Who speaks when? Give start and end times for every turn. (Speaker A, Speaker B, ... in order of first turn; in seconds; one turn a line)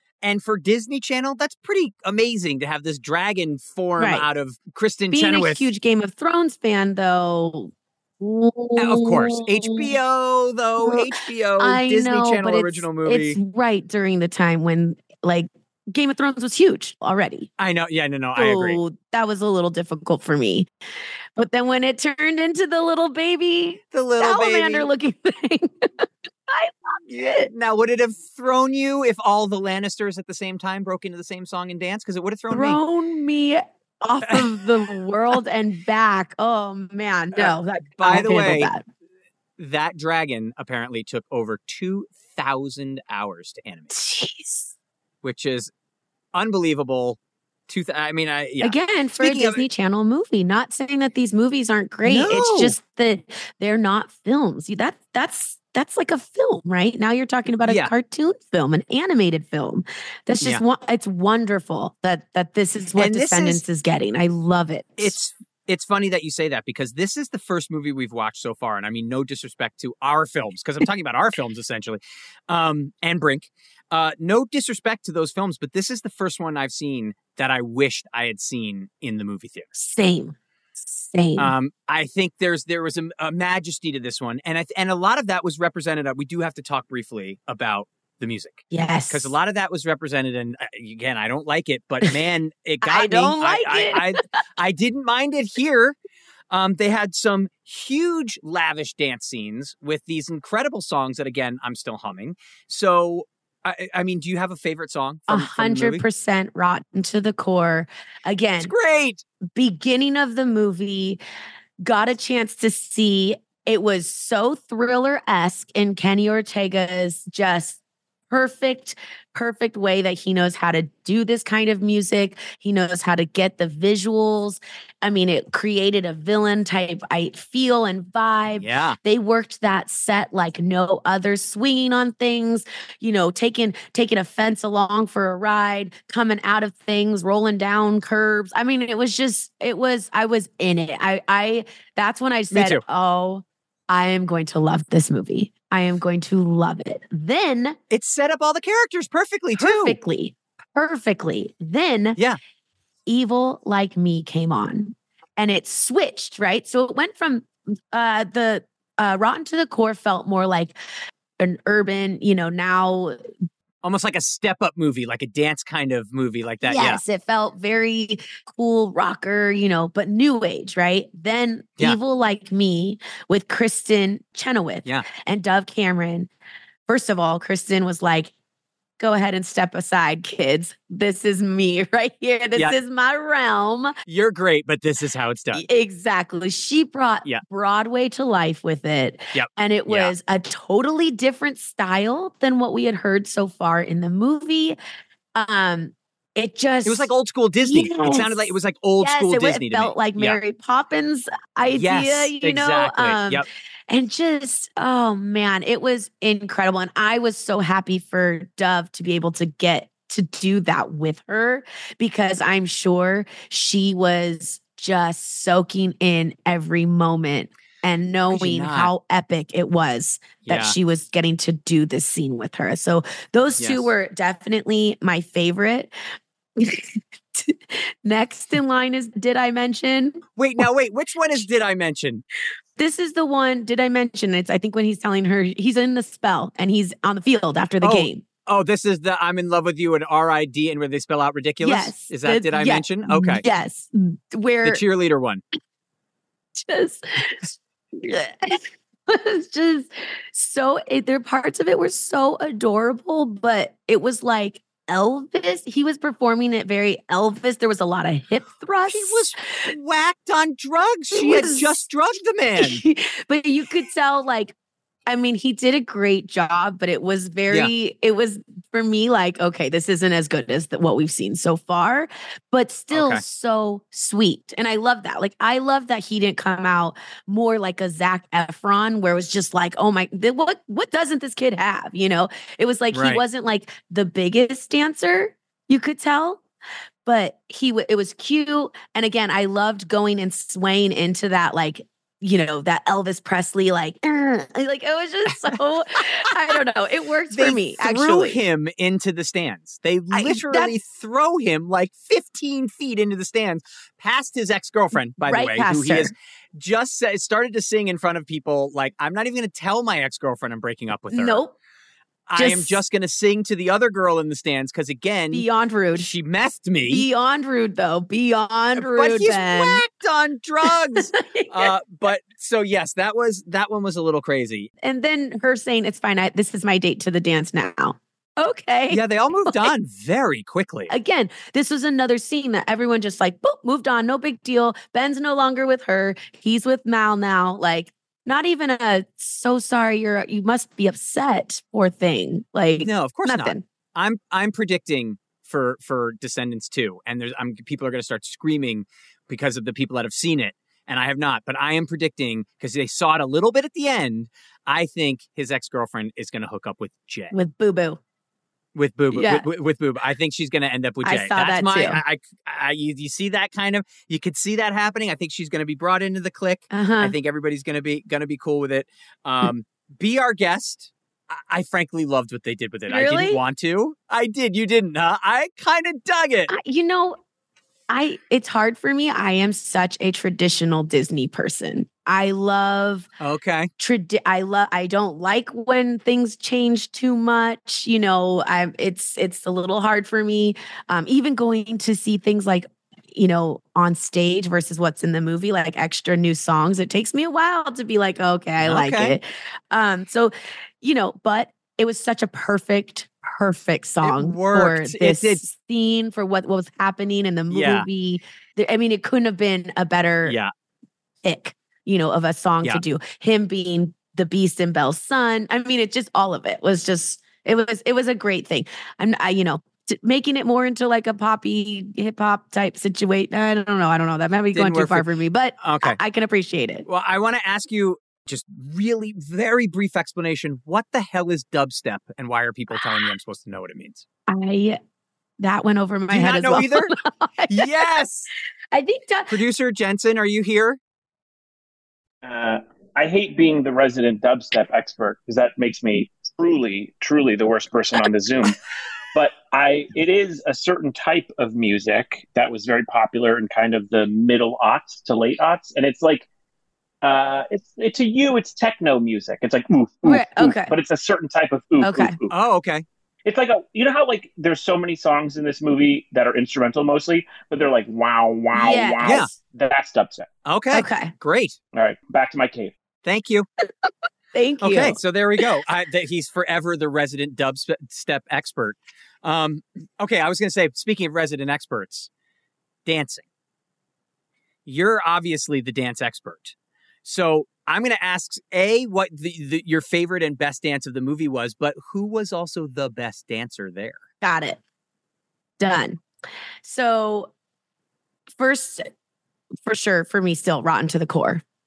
Speaker A: 0.2-5.7
Speaker B: 4.0-4.2
Speaker B: 5.1-9.9
Speaker A: 8.8-13.4
Speaker B: 10.8-11.1
Speaker B: 11.6-17.5
Speaker A: 17.6-18.8
Speaker B: 18.4-20.7
Speaker B: 21.4-27.5
Speaker A: 23.9-24.9
Speaker A: 27.1-32.8
Speaker B: 32.5-38.8
Speaker A: 37.4-38.7
Speaker A: 39.6-43.9
Speaker B: 43.9-44.7
Speaker A: 45.2-45.7
Speaker A: 46.3-47.2
Speaker A: 47.7-49.6
Speaker B: 48.6-65.1
Speaker A: 52.0-52.8
Speaker A: 57.6-57.9
Speaker A: 63.0-63.6
Speaker A: 65.0-79.7
Speaker B: 79.7-81.5
Speaker A: 81.4-95.9
Speaker B: 88.7-89.3
Speaker B: 92.8-94.2
Speaker A: 96.5-106.0
Speaker B: 105.3-108.7
Speaker A: 108.6-109.2
Speaker B: 109.5-111.2
Speaker B: 111.8-117.8
Speaker B: 118.3-147.8
Speaker A: 128.6-129.0
Speaker A: 142.5-142.8
Speaker A: 147.9-150.0
Speaker B: 149.6-152.2
Speaker B: 153.1-160.7
Speaker B: 161.4-163.2
Speaker A: 163.8-167.0
Speaker B: 166.6-176.3
Speaker B: 176.9-178.3
Speaker B: 179.0-183.9
Speaker A: 184.1-185.6
Speaker B: 185.5-194.8
Speaker A: 189.3-190.1
Speaker B: 195.3-197.1
Speaker A: 196.8-200.4
Speaker B: 197.6-225.9
Speaker A: 201.7-203.4
Speaker A: 218.3-218.9
Speaker A: 220.4-220.7
Speaker A: 223.6-223.9
Speaker B: 226.6-230.2
Speaker A: 230.4-232.2
Speaker B: 232.8-238.2
Speaker A: 237.8-243.4
Speaker B: 241.6-244.8
Speaker A: 244.6-245.4
Speaker B: 246.6-259.7
Speaker A: 258.9-262.8
Speaker B: 261.1-261.8
Speaker B: 262.6-264.5
Speaker B: 265.1-286.4
Speaker A: 272.9-273.2
Speaker A: 282.9-283.2
Speaker B: 287.0-298.4
Speaker A: 297.3-311.4
Speaker B: 300.1-300.7
Speaker B: 305.2-306.1
Speaker B: 311.1-311.5
Speaker A: 312.3-317.1
Speaker B: 312.4-312.8
Speaker B: 315.3-316.1
Speaker B: 316.9-319.8
Speaker A: 318.8-324.7
Speaker B: 321.0-321.7
Speaker B: 324.8-329.7
Speaker A: 328.9-330.9
Speaker B: 330.9-343.6
Speaker A: 342.8-357.3
Speaker B: 357.3-358.0
Speaker A: 358.7-376.5
Speaker B: 359.1-359.4
Speaker B: 361.0-362.0
Speaker B: 366.7-367.1
Speaker B: 372.9-373.4
Speaker B: 376.5-377.2
Speaker B: 377.9-383.1
Speaker A: 383.2-383.7
Speaker B: 383.8-410.4
Speaker A: 398.6-399.1
Speaker A: 404.0-405.4
Speaker A: 407.5-407.9
Speaker A: 410.2-410.5
Speaker B: 411.2-426.8
Speaker A: 424.5-425.1
Speaker A: 425.6-426.0
Speaker A: 426.9-434.0
Speaker B: 434.3-434.8
Speaker B: 435.4-437.7
Speaker A: 436.1-436.9
Speaker A: 437.5-438.3
Speaker B: 438.7-439.3
Speaker A: 439.3-440.8
Speaker C: 442.2-448.6
Speaker C: 449.1-456.3
Speaker C: 457.0-462.3
Speaker B: 460.0-460.7
Speaker B: 461.8-462.1
Speaker A: 462.3-462.8
Speaker C: 463.2-470.3
Speaker B: 468.5-469.4
Speaker A: 469.0-469.3
Speaker A: 470.4-471.6
Speaker B: 470.7-471.1
Speaker C: 471.7-472.7
Speaker A: 473.0-473.5
Speaker B: 473.8-475.0
Speaker A: 474.6-482.1
Speaker A: 482.9-483.2
Speaker A: 484.6-494.0
Speaker B: 494.2-494.6
Speaker B: 495.6-496.0
Speaker B: 496.6-497.3
Speaker B: 498.3-498.9
Speaker B: 499.6-501.4